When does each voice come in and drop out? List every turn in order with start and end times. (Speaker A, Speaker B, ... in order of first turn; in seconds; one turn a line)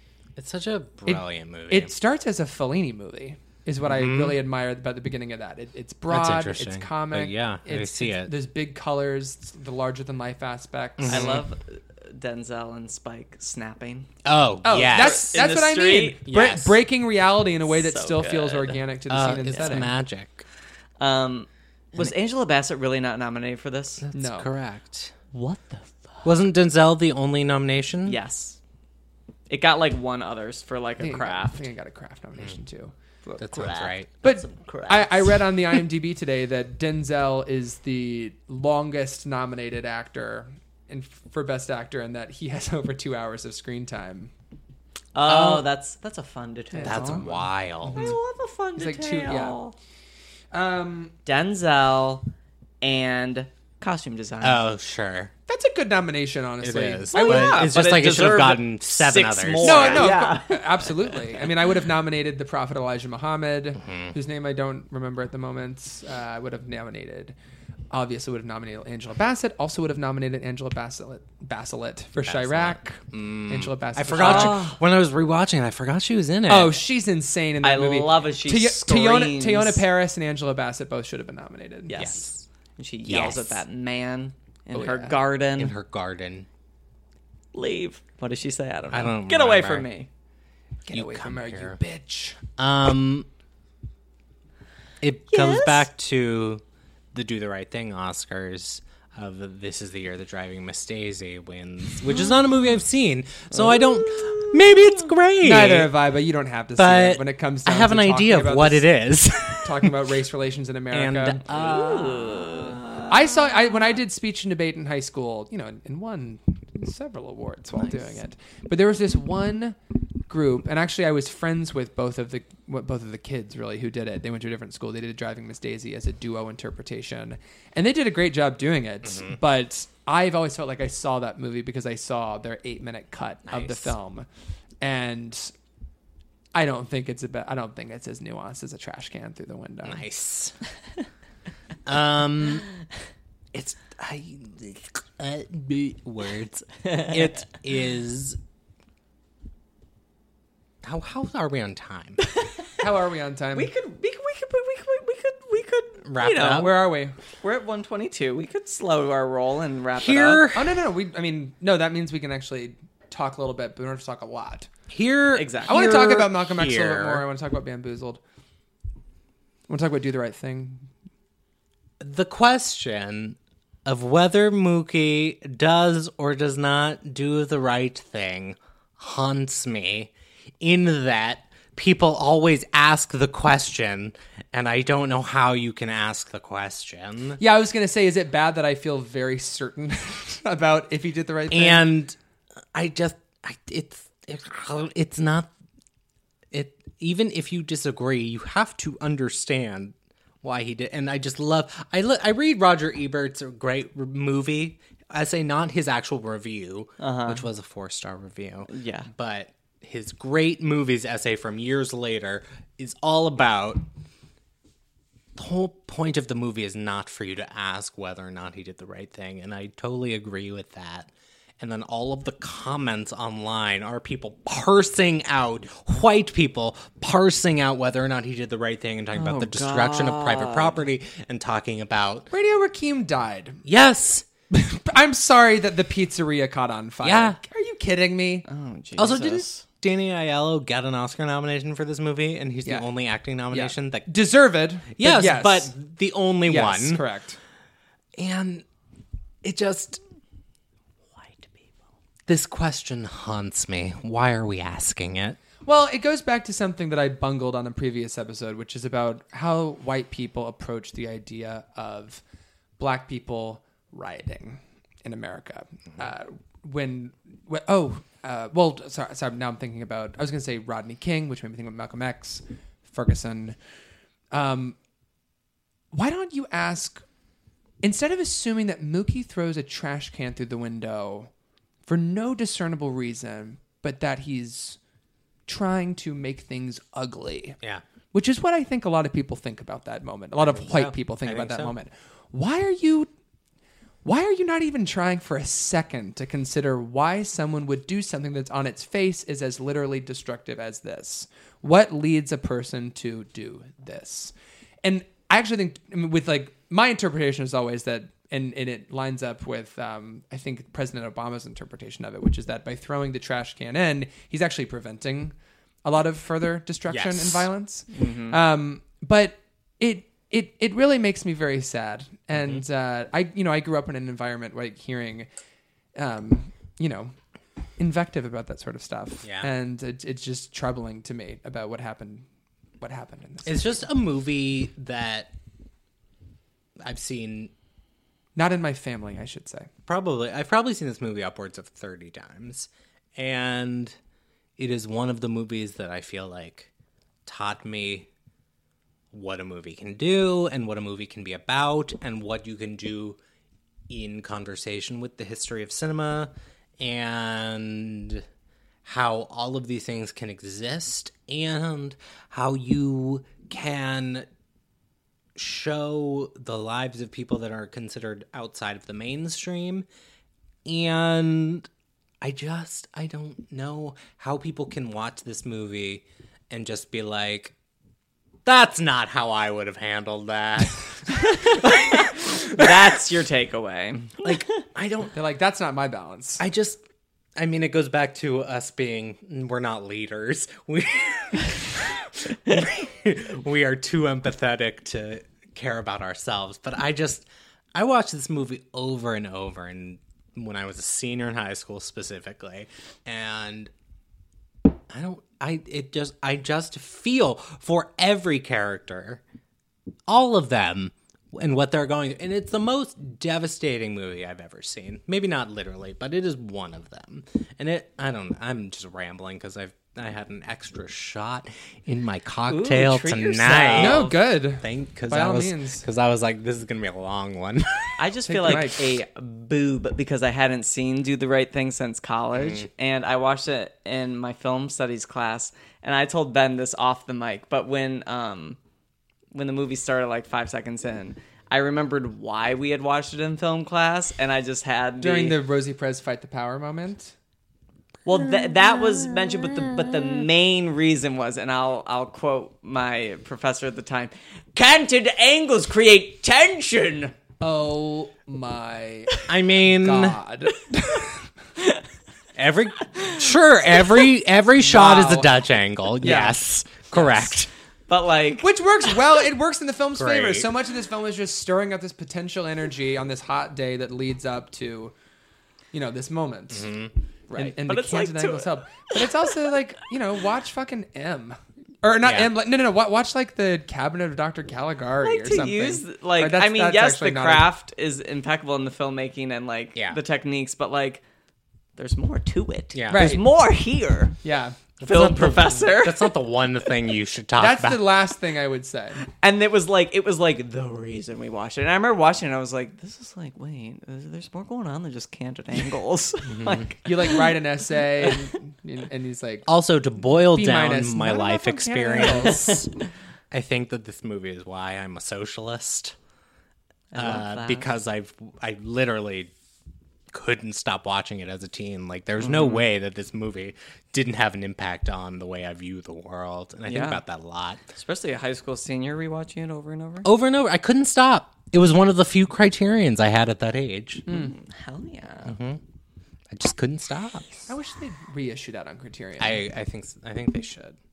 Speaker A: 0.3-1.9
Speaker B: 1.1-11.4
Speaker A: 3.9-4.4
Speaker A: 6.1-8.3
Speaker A: 11.0-11.4
Speaker C: 11.1-14.1
Speaker A: 14.2-15.4
Speaker B: 14.6-19.9
Speaker C: 14.9-16.2
Speaker A: 16.3-16.8
Speaker C: 17.7-18.8
Speaker A: 19.1-20.4
Speaker C: 21.0-24.0
Speaker A: 24.0-25.1
Speaker B: 24.1-24.5
Speaker C: 25.3-26.2
Speaker A: 26.2-28.2
Speaker C: 28.1-28.6
Speaker C: 29.5-31.7
Speaker B: 31.0-32.9
Speaker C: 33.2-35.5
Speaker A: 33.4-34.1
Speaker B: 34.2-44.3
Speaker C: 45.1-47.2
Speaker A: 45.2-45.7
Speaker B: 46.7-48.2
Speaker A: 46.8-48.1
Speaker C: 47.9-49.7
Speaker B: 48.8-49.6
Speaker B: 50.5-51.1
Speaker C: 51.2-52.3
Speaker C: 52.8-54.6
Speaker A: 54.4-55.3
Speaker B: 55.5-57.7
Speaker A: 56.6-60.1
Speaker C: 57.1-61.4
Speaker B: 59.6-67.3
Speaker A: 63.8-64.1
Speaker B: 67.9-74.6
Speaker A: 72.2-76.8
Speaker C: 74.1-74.8
Speaker B: 76.5-82.1
Speaker C: 77.6-79.8
Speaker C: 81.9-82.2
Speaker A: 82.0-82.4
Speaker C: 82.8-85.7
Speaker A: 83.0-83.6
Speaker B: 84.7-85.2
Speaker A: 85.6-86.5
Speaker C: 87.5-90.1
Speaker A: 88.9-89.9
Speaker B: 90.8-92.4
Speaker A: 90.9-91.8
Speaker A: 92.6-93.3
Speaker A: 95.0-105.9
Speaker C: 95.3-95.9
Speaker C: 103.5-104.7
Speaker B: 105.4-108.9
Speaker A: 106.8-110.0
Speaker B: 109.5-111.4
Speaker A: 110.9-112.7
Speaker C: 111.5-113.1
Speaker B: 113.0-119.8
Speaker B: 120.3-134.2
Speaker A: 129.0-129.4
Speaker A: 133.5-133.9
Speaker B: 134.8-135.5
Speaker B: 136.5-140.0
Speaker A: 139.8-140.6
Speaker A: 141.8-142.7
Speaker A: 143.5-148.4
Speaker A: 150.8-152.2
Speaker B: 152.8-153.7
Speaker C: 153.5-156.7
Speaker A: 156.0-156.7
Speaker B: 156.5-157.2
Speaker C: 157.4-160.4
Speaker A: 159.9-160.8
Speaker B: 160.5-164.7
Speaker A: 164.9-167.2
Speaker C: 165.3-166.0
Speaker B: 165.7-168.2
Speaker B: 169.7-170.9
Speaker A: 172.0-187.4
Speaker B: 187.4-191.8
Speaker A: 191.5-192.2
Speaker A: 192.7-195.5
Speaker A: 196.5-213.8
Speaker C: 207.0-207.4
Speaker C: 208.7-209.1
Speaker A: 215.3-232.3
Speaker C: 229.1-230.8
Speaker B: 232.3-233.6
Speaker A: 233.7-234.2
Speaker B: 234.5-238.4
Speaker A: 237.0-237.4
Speaker C: 238.4-239.6
Speaker A: 239.0-244.1
Speaker B: 243.5-245.7
Speaker A: 244.9-247.0
Speaker B: 246.4-247.4
Speaker A: 248.2-248.6
Speaker A: 249.4-250.0
Speaker C: 251.2-251.5
Speaker A: 252.3-255.4
Speaker B: 255.6-262.2
Speaker B: 262.8-273.6
Speaker B: 274.3-274.7
Speaker B: 275.9-277.0
Speaker B: 277.8-281.3
Speaker B: 281.9-284.8
Speaker B: 285.5-287.6
Speaker B: 288.1-293.1
Speaker A: 290.4-291.7
Speaker B: 294.0-315.3
Speaker B: 315.8-325.3
Speaker A: 316.9-317.5
Speaker C: 317.9-318.4
Speaker A: 322.3-322.6
Speaker B: 325.9-327.1
Speaker B: 327.8-332.2
Speaker A: 329.2-329.5
Speaker B: 332.8-333.7
Speaker A: 333.4-335.3
Speaker A: 336.8-337.5
Speaker B: 338.4-339.7
Speaker A: 339.9-343.9
Speaker A: 344.6-346.7
Speaker A: 347.2-348.1
Speaker A: 349.1-353.2
Speaker A: 353.9-358.2
Speaker A: 358.8-364.3
Speaker A: 365.4-369.9
Speaker A: 370.6-371.7
Speaker A: 372.2-377.5
Speaker A: 378.4-382.8
Speaker C: 381.4-384.4
Speaker A: 384.2-385.1
Speaker B: 385.1-386.4
Speaker A: 386.4-386.8
Speaker A: 387.4-403.7
Speaker A: 404.9-409.2
Speaker A: 410.1-428.6
Speaker C: 422.5-424.1
Speaker B: 423.7-425.8
Speaker C: 428.0-438.6
Speaker B: 428.3-429.0
Speaker A: 432.3-432.6
Speaker C: 439.3-445.4
Speaker B: 445.0-447.1
Speaker C: 448.1-457.1
Speaker B: 457.4-461.2
Speaker A: 459.3-460.2
Speaker A: 462.4-467.5
Speaker B: 464.6-465.3
Speaker B: 466.0-467.4
Speaker C: 467.9-468.5
Speaker B: 468.4-474.9
Speaker A: 469.9-470.5
Speaker B: 475.7-476.7
Speaker A: 476.5-476.9
Speaker C: 477.3-479.3
Speaker B: 477.3-487.5
Speaker A: 482.0-482.3
Speaker C: 485.0-491.0
Speaker A: 489.7-490.0
Speaker C: 491.8-494.1
Speaker A: 492.7-493.2
Speaker B: 492.9-493.2
Speaker B: 494.2-494.6
Speaker A: 494.8-497.9
Speaker C: 494.8-496.2
Speaker B: 497.4-499.0
Speaker C: 499.1-507.3
Speaker A: 506.2-506.7
Speaker B: 506.8-509.5
Speaker A: 509.5-512.7
Speaker B: 510.1-512.5
Speaker A: 513.3-515.9
Speaker C: 516.9-517.7
Speaker A: 516.9-519.3
Speaker A: 520.1-527.7
Speaker C: 522.2-522.7
Speaker C: 526.6-527.0
Speaker C: 527.7-530.1
Speaker A: 530.0-534.0
Speaker C: 534.1-535.4
Speaker B: 534.1-534.3
Speaker A: 535.2-535.6
Speaker A: 536.3-537.5
Speaker B: 537.5-539.4
Speaker A: 539.2-540.8